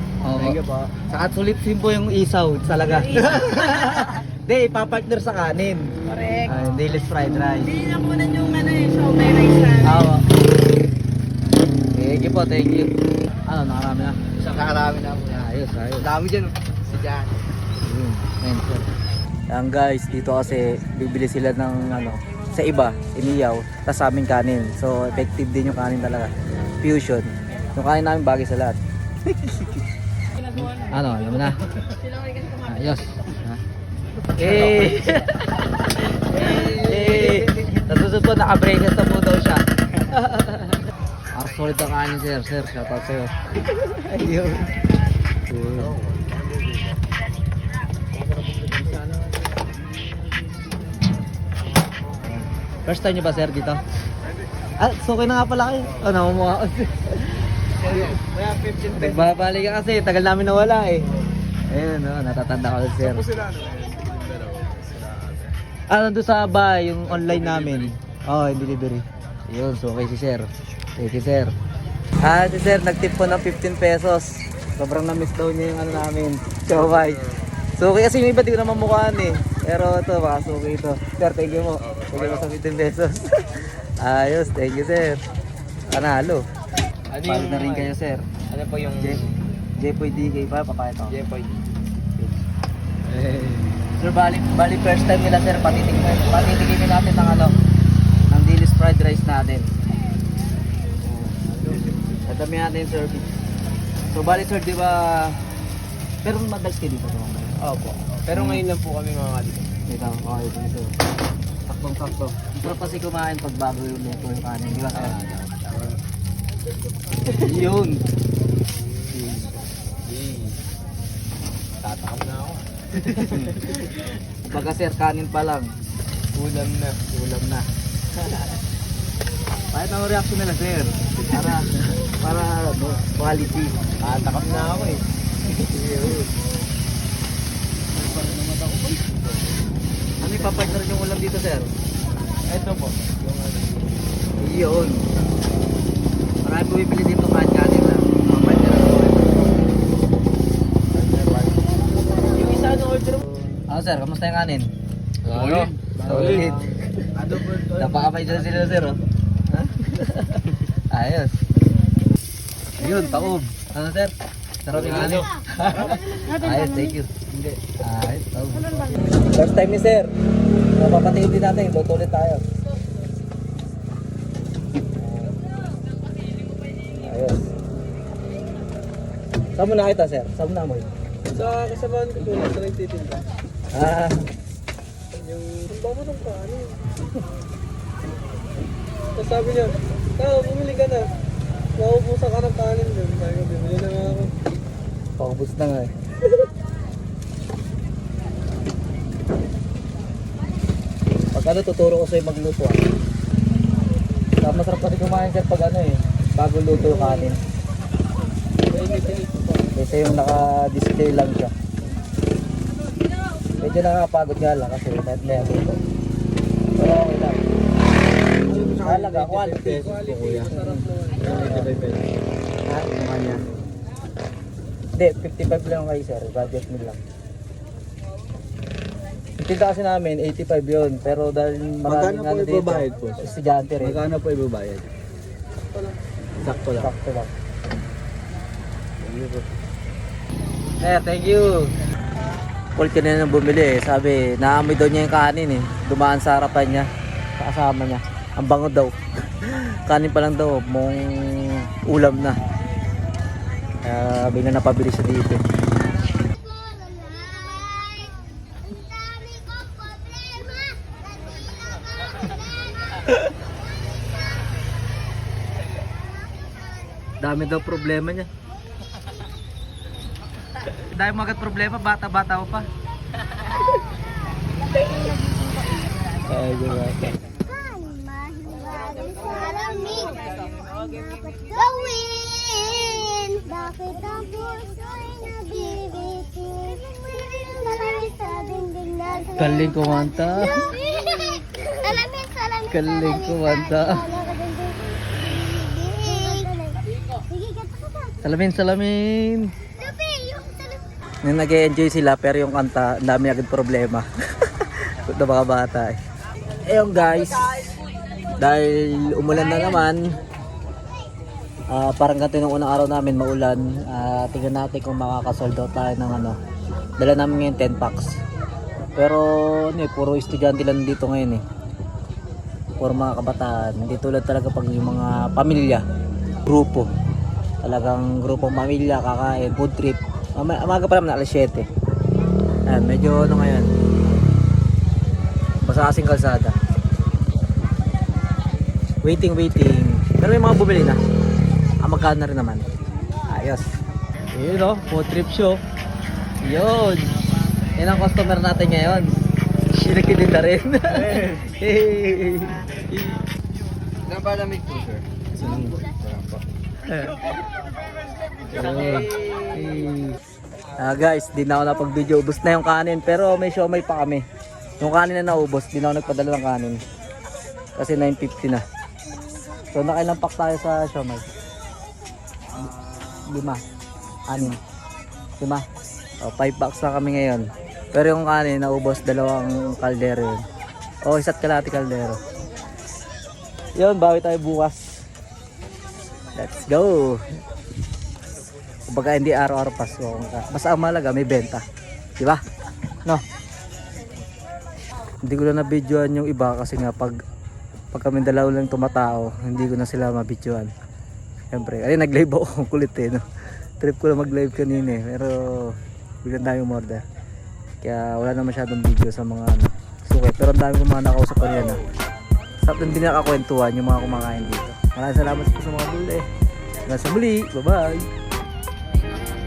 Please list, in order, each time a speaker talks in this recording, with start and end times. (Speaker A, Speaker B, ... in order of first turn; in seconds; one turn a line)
Speaker A: 0.2-5.9
Speaker B: 0.3-0.9
Speaker C: 3.2-3.6
Speaker C: 6.0-6.5
Speaker A: 6.5-7.8
Speaker C: 7.7-10.1
Speaker A: 9.8-10.2
Speaker A: 11.9-12.9
Speaker A: 13.5-14.2
Speaker B: 14.3-15.4
Speaker A: 15.2-16.1
Speaker B: 16.0-17.4
Speaker A: 17.8-18.9
Speaker A: 19.5-28.8
Speaker A: 29.3-29.8
Speaker A: 30.5-31.6
Speaker C: 32.0-32.6
Speaker A: 32.6-33.6
Speaker A: 34.4-40.8
Speaker B: 34.4-35.0
Speaker B: 36.2-37.8
Speaker A: 41.3-44.7
Speaker A: 45.5-46.0
Speaker B: 48.2-49.6
Speaker A: 52.9-53.8
Speaker A: 54.8-58.1
Speaker B: 57.8-59.3
Speaker A: 58.9-61.1
Speaker A: 61.7-63.3
Speaker B: 63.3-65.5
Speaker A: 65.9-71.5
Speaker B: 67.2-67.9
Speaker A: 72.2-77.2
Speaker A: 77.8-85.2
Speaker A: 85.9-86.4
Speaker B: 87.1-87.9
Speaker A: 87.2-88.3
Speaker B: 88.5-89.3
Speaker A: 89.0-89.2
Speaker A: 89.8-91.2
Speaker B: 91.1-91.8
Speaker A: 93.1-97.5
Speaker B: 93.2-93.6
Speaker A: 98.3-99.7
Speaker A: 101.0-101.3
Speaker B: 101.4-102.2
Speaker A: 102.2-103.3
Speaker A: 104.1-105.3
Speaker A: 106.2-107.5
Speaker B: 107.6-109.7
Speaker A: 108.3-108.6
Speaker A: 109.9-110.9
Speaker A: 111.7-115.2
Speaker B: 114.9-116.0
Speaker A: 117.2-118.0
Speaker B: 119.0-119.4
Speaker B: 120.0-120.6
Speaker B: 121.8-124.1
Speaker A: 123.0-123.8
Speaker A: 124.5-125.7
Speaker B: 126.3-127.0
Speaker A: 127.1-127.7
Speaker A: 129.7-133.8
Speaker B: 131.3-131.6
Speaker B: 134.0-136.3
Speaker A: 138.0-138.6
Speaker B: 138.0-139.3
Speaker A: 140.2-141.7
Speaker B: 142.3-144.1
Speaker A: 144.4-145.0
Speaker A: 146.4-149.4
Speaker B: 148.4-149.3
Speaker B: 150.9-153.6
Speaker A: 153.7-154.7
Speaker B: 155.2-158.9
Speaker A: 155.4-156.7
Speaker A: 157.8-159.0
Speaker A: 159.5-161.4
Speaker A: 162.8-164.1
Speaker A: 164.6-170.1
Speaker B: 164.7-166.0
Speaker A: 170.8-172.4
Speaker A: 176.9-177.5
Speaker A: 179.5-180.9
Speaker B: 181.3-183.2
Speaker A: 183.7-184.3
Speaker B: 185.1-186.9
Speaker B: 189.1-191.1
Speaker B: 191.8-194.3
Speaker A: 194.0-194.3
Speaker A: 195.2-196.3
Speaker A: 201.3-202.8
Speaker A: 204.4-207.4
Speaker B: 208.7-209.7
Speaker A: 209.7-211.5
Speaker A: 213.6-215.8
Speaker A: 216.8-217.4
Speaker B: 218.4-222.1
Speaker A: 218.5-221.7
Speaker A: 222.7-223.4
Speaker A: 224.9-227.0
Speaker A: 229.4-234.0
Speaker B: 231.8-233.2
Speaker B: 233.8-234.9
Speaker B: 235.7-236.9
Speaker A: 236.8-237.3
Speaker B: 239.0-239.5
Speaker A: 240.8-241.7
Speaker A: 242.8-252.4
Speaker A: 253.8-255.4
Speaker D: 256.4-258.1
Speaker A: 267.2-268.3
Speaker A: 270.6-272.7
Speaker A: 276.1-277.1
Speaker D: 277.4-289.3
Speaker A: 289.4-290.8
Speaker D: 290.7-292.6
Speaker A: 292.6-294.1
Speaker D: 294.1-298.2
Speaker A: 298.2-299.5
Speaker D: 299.8-300.8
Speaker A: 301.2-306.0
Speaker A: 306.6-307.6
Speaker A: 308.3-310.0
Speaker A: 311.7-316.4
Speaker A: 317.0-318.2
Speaker A: 318.9-321.4
Speaker A: 322.8-325.8
Speaker A: 326.4-326.9
Speaker A: 327.6-331.7
Speaker A: 332.7-333.7
Speaker A: 335.6-336.6
Speaker A: 339.0-341.0
Speaker A: 341.8-342.6
Speaker A: 343.3-343.7
Speaker A: 344.3-345.6
Speaker A: 346.4-347.1
Speaker A: 347.8-349.1
Speaker A: 349.7-353.2
Speaker B: 350.9-351.5
Speaker B: 354.0-356.4
Speaker A: 355.4-355.8
Speaker A: 356.8-357.2
Speaker B: 358.5-359.6
Speaker A: 358.5-360.2
Speaker A: 360.8-364.2
Speaker A: 364.8-366.8
Speaker A: 367.8-368.6
Speaker A: 369.7-371.3
Speaker A: 373.3-373.6
Speaker A: 374.3-374.6
Speaker A: 375.4-375.6
Speaker A: 376.2-380.4
Speaker A: 381.0-382.2
Speaker A: 383.8-384.8
Speaker A: 386.3-387.2
Speaker A: 388.9-391.6
Speaker A: 395.2-397.1
Speaker A: 397.9-400.7
Speaker A: 401.5-403.2
Speaker A: 403.8-407.0
Speaker A: 407.8-411.8
Speaker A: 412.6-416.2
Speaker A: 416.9-418.1